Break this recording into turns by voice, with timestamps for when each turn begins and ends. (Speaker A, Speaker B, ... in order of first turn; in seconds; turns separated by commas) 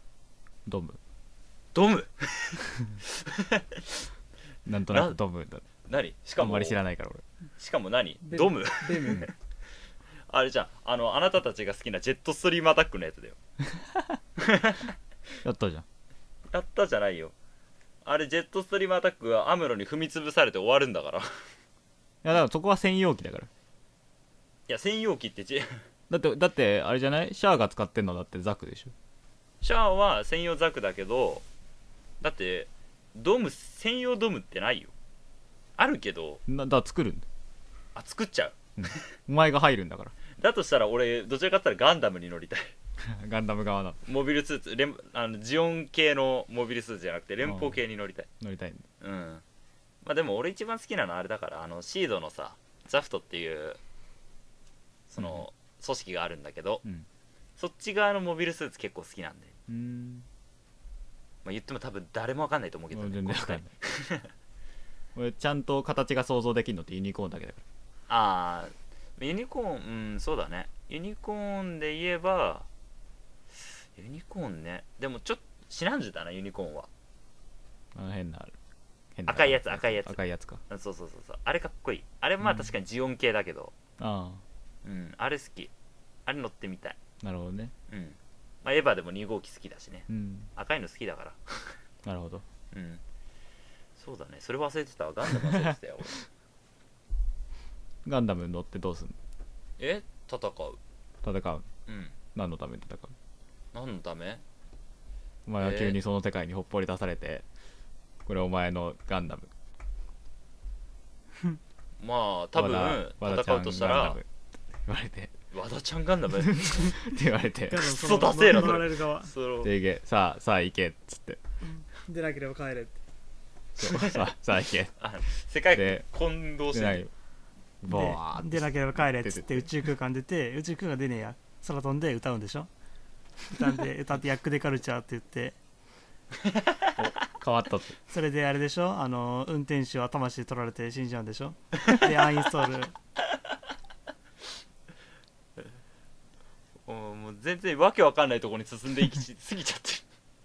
Speaker A: 0.7-1.0, Speaker B: 1.7-4.0, Speaker A: 4.7-5.7, Speaker B: 4.9-5.2, Speaker B: 5.8-6.8, Speaker A: 6.4-7.2, Speaker B: 7.6-9.3, Speaker C: 8.3-9.2, Speaker B: 10.3-13.4, Speaker A: 13.7-14.2, Speaker B: 14.4-14.9, Speaker A: 15.4-15.8, Speaker B: 16.5-17.3, Speaker B: 18.1-21.3, Speaker A: 22.2-23.5, Speaker B: 24.7-25.9, Speaker A: 26.1-28.9, Speaker B: 29.6-31.4, Speaker B: 32.2-34.9, Speaker B: 35.8-36.4, Speaker A: 36.5-37.3, Speaker B: 38.0-39.1, Speaker A: 38.8-40.1, Speaker B: 40.4-42.8, Speaker A: 43.0-44.0, Speaker B: 44.1-48.3, Speaker A: 47.4-47.8, Speaker A: 48.4-48.9, Speaker B: 49.0-49.4, Speaker B: 50.0-53.8, Speaker B: 55.1-56.8, Speaker B: 57.6-59.5, Speaker A: 59.7-60.3, Speaker B: 61.5-64.3, Speaker A: 62.9-63.7, Speaker A: 65.2-67.6, Speaker B: 68.1-72.7, Speaker B: 74.0-76.9, Speaker A: 77.9-78.6, Speaker A: 79.2-80.6, Speaker B: 79.3-80.2, Speaker B: 80.7-83.7, Speaker A: 82.4-82.7, Speaker A: 84.0-84.4, Speaker B: 84.8-85.7, Speaker B: 86.3-87.0, Speaker A: 87.2-87.7, Speaker B: 87.9-91.8, Speaker A: 90.1-90.5, Speaker A: 92.0-92.5, Speaker B: 92.7-93.0, Speaker B: 94.0-96.2, Speaker A: 98.0-99.2, Speaker B: 99.8-100.8, Speaker A: 101.2-101.7, Speaker B: 101.9-102.2, Speaker A: 102.3-103.1, Speaker B: 103.7-104.4, Speaker A: 105.5-107.5, Speaker B: 105.6-106.0, Speaker A: 108.2-109.5, Speaker B: 112.0-114.2, Speaker A: 112.6-114.3, Speaker A: 114.9-115.3, Speaker B: 115.5-117.0, Speaker A: 116.5-117.9, Speaker C: 117.7-119.3, Speaker B: 117.9-119.7, Speaker A: 119.6-121.4, Speaker C: 121.6-123.0, Speaker B: 123.8-124.3, Speaker A: 123.8-124.9, Speaker B: 125.0-127.0, Speaker A: 125.7-126.0, Speaker A: 126.7-127.1, Speaker A: 127.8-129.7, Speaker C: 127.9-132.7, Speaker C: 133.5-135.6, Speaker B: 136.4-136.9, Speaker A: 137.0-137.9, Speaker C: 138.1-142.9, Speaker B: 146.9-150.1